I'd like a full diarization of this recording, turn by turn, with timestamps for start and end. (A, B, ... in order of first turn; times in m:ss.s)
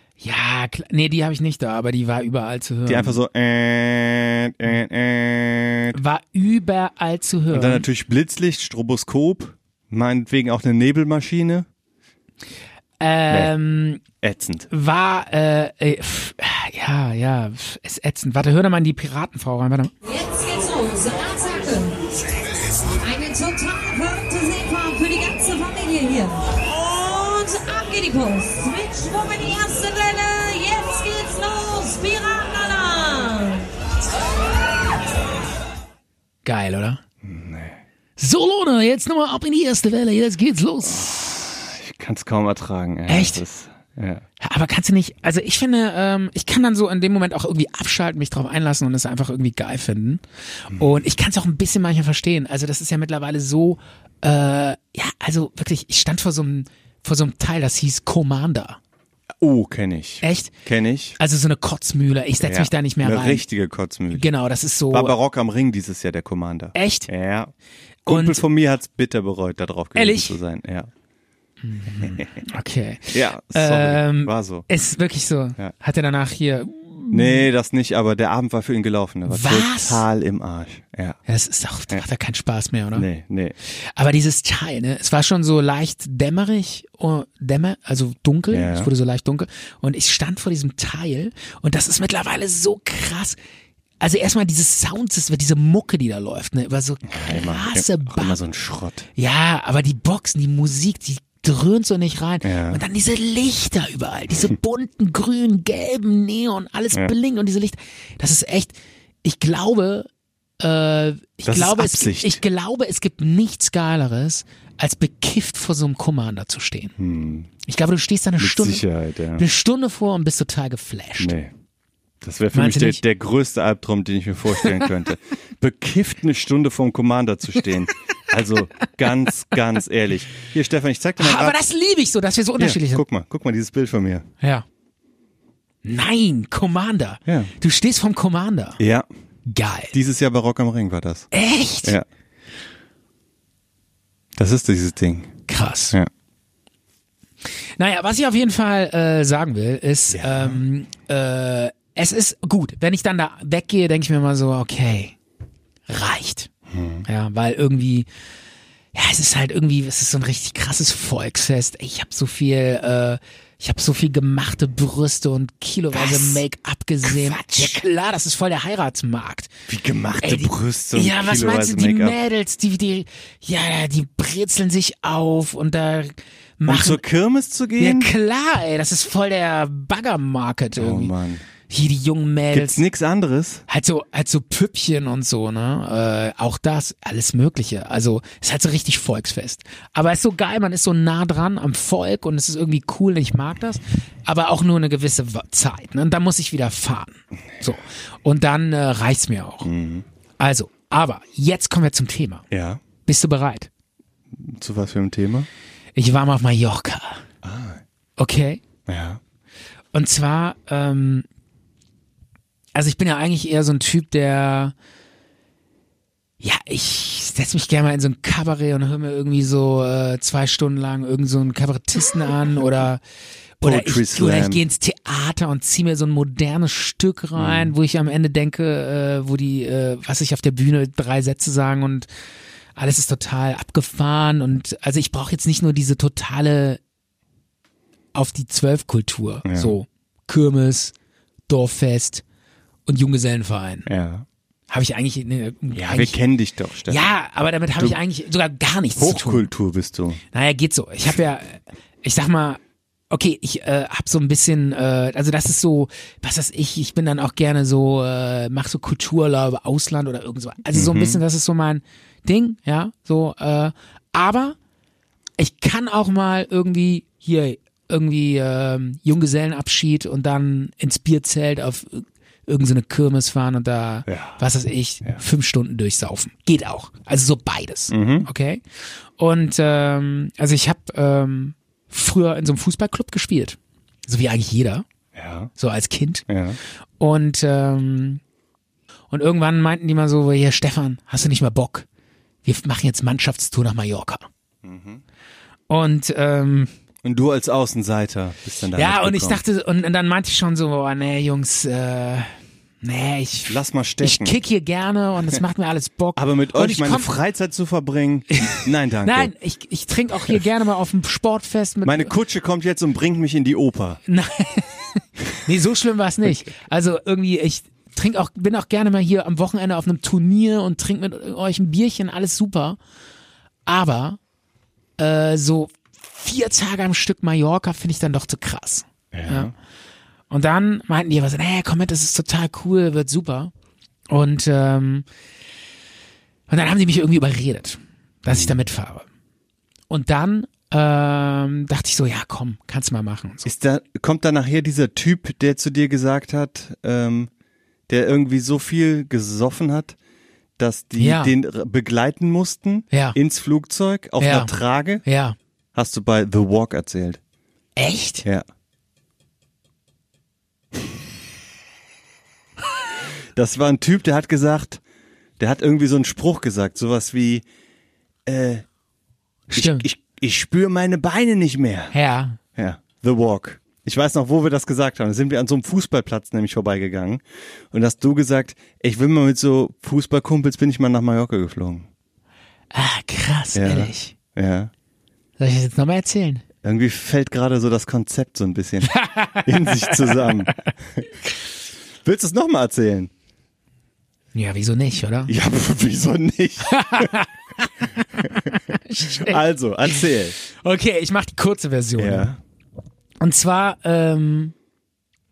0:00.2-0:03.2 A
0:02.9-0:06.0 B
0:05.9-0:07.9 A
0:07.5-0:11.7 B
0:13.0-0:14.0 A
0:13.3-0:13.5 B
0:14.2-0:14.7 B
0:14.7-0:19.9 A
0:20.0-0:22.0 C
0:22.9-0:33.7 C
0:36.4-0:37.0 A
0:37.2-0:37.8 B
0:38.2-0:41.5 A
0:40.8-0:44.2 B
0:43.1-0:43.4 A
0:44.4-0:58.8 A
0:59.4-1:01.2 B
1:00.2-1:00.5 A
1:01.2-1:03.4 A
1:02.4-1:04.3 B
1:04.1-1:05.2 A
1:04.9-1:07.5 B
1:06.8-1:07.1 A
1:08.0-1:10.9 B
1:08.1-1:08.4 A
1:10.0-1:10.4 A
1:11.6-1:17.5 A
1:12.0-1:12.3 B
1:13.1-1:14.7 B
1:17.1-1:21.2 B
1:19.3-1:20.1 A
1:21.3-1:23.1 A
1:22.9-1:23.6 B
1:23.7-1:33.4 A
1:28.5-1:28.9 B
1:34.0-1:38.4 A
1:37.1-1:39.1 B
1:39.2-1:50.1 A
1:42.4-1:42.8 B
1:50.6-1:56.9 A
1:51.4-1:52.4 B
1:57.0-1:57.5 B
1:57.6-1:58.8 A
1:58.4-1:59.4 B
1:59.4-2:01.4 A
2:01.2-2:01.5 B
2:02.2-2:11.6 B
2:02.5-2:03.0 A
2:11.2-2:13.0 A
2:12.6-2:14.3 B
2:15.8-2:18.8 A
2:18.8-2:19.1 B
2:19.5-2:20.0 A
2:19.9-2:21.3 B
2:21.3-2:22.0 A
2:24.4-2:25.4 B
2:25.5-2:26.0 A
2:27.8-2:35.2 A
2:30.1-2:30.6 B
2:35.9-2:36.5 A
2:36.7-2:37.0 B
2:37.0-2:38.1 A
2:38.9-2:49.5 A
2:45.9-2:46.4 B
2:47.0-2:47.8 B
2:49.7-2:52.2 B
2:50.2-2:57.0 A
2:56.7-2:58.1 B
2:57.8-3:01.1 A
3:00.8-3:01.4 B
3:01.7-3:02.8 A
3:02.5-3:03.6 B
3:03.7-3:19.7 A
3:19.6-3:20.1 B
3:20.4-3:22.4 A
3:22.5-3:22.8 B
3:23.0-3:23.7 A
3:24.3-3:25.5 B
3:26.0-3:27.2 A
3:27.4-3:27.8 B
3:28.2-3:28.6 A
3:28.9-3:29.2 B
3:29.9-3:31.3 A
3:32.8-3:34.7 A
3:36.4-3:43.0 A
3:43.6-3:44.6 B
3:43.6-3:52.1 A
3:47.4-3:47.8 B
3:52.8-3:56.8 A
3:58.1-4:00.9 A
3:59.4-3:59.8 B
4:01.5-4:02.2 A
4:02.9-4:03.9 A
4:03.9-4:04.2 B
4:04.7-4:06.2 A
4:05.7-4:07.1 B
4:06.9-4:09.5 A
4:09.0-4:10.2 B
4:10.3-4:12.6 A
4:13.1-4:24.6 A
4:20.7-4:21.2 B
4:25.4-4:38.6 A
4:34.1-4:34.4 B
4:37.9-4:38.3 B
4:39.2-4:44.9 A
4:45.1-4:45.5 B
4:45.6-4:46.2 A
4:46.3-4:46.6 B
4:47.0-4:48.2 A
4:49.1-4:51.9 A
4:52.4-4:54.2 A
4:54.6-4:55.0 B
4:55.7-4:56.7 A
4:57.0-4:59.4 B
4:58.8-5:07.1 A
5:03.5-5:04.4 B
5:06.2-5:09.3 B
5:08.3-5:12.1 A
5:11.8-5:14.0 B
5:14.1-5:22.8 A
5:23.7-5:24.2 A
5:25.0-5:29.5 A
5:29.1-5:29.5 B
5:30.3-5:33.5 A
5:34.1-5:35.1 A
5:36.5-5:39.0 A
5:38.3-5:38.6 B
5:39.9-5:43.5 A
5:43.4-5:47.3 B
5:47.9-5:50.0 B
5:50.6-5:55.0 B
5:51.0-5:51.4 A
5:52.9-5:53.2 A
5:54.2-5:55.4 A
5:55.8-5:57.2 B
5:57.8-5:58.2 A
6:03.4-6:04.8 B
6:05.4-6:07.4 B
6:08.3-6:08.6 B
6:09.5-6:09.9 A
6:09.5-6:11.9 B
6:11.9-6:12.4 A
6:12.6-6:21.9 B
6:22.7-6:24.2 A
6:23.6-6:24.7 B
6:25.4-6:26.4 A
6:26.6-6:31.1 B
6:28.9-6:30.7 A
6:32.0-6:33.1 B
6:34.3-6:35.3 A
6:35.3-6:37.1 B
6:36.7-6:42.3 A
6:39.0-6:40.4 B
6:42.0-6:42.4 B
6:43.2-6:44.5 A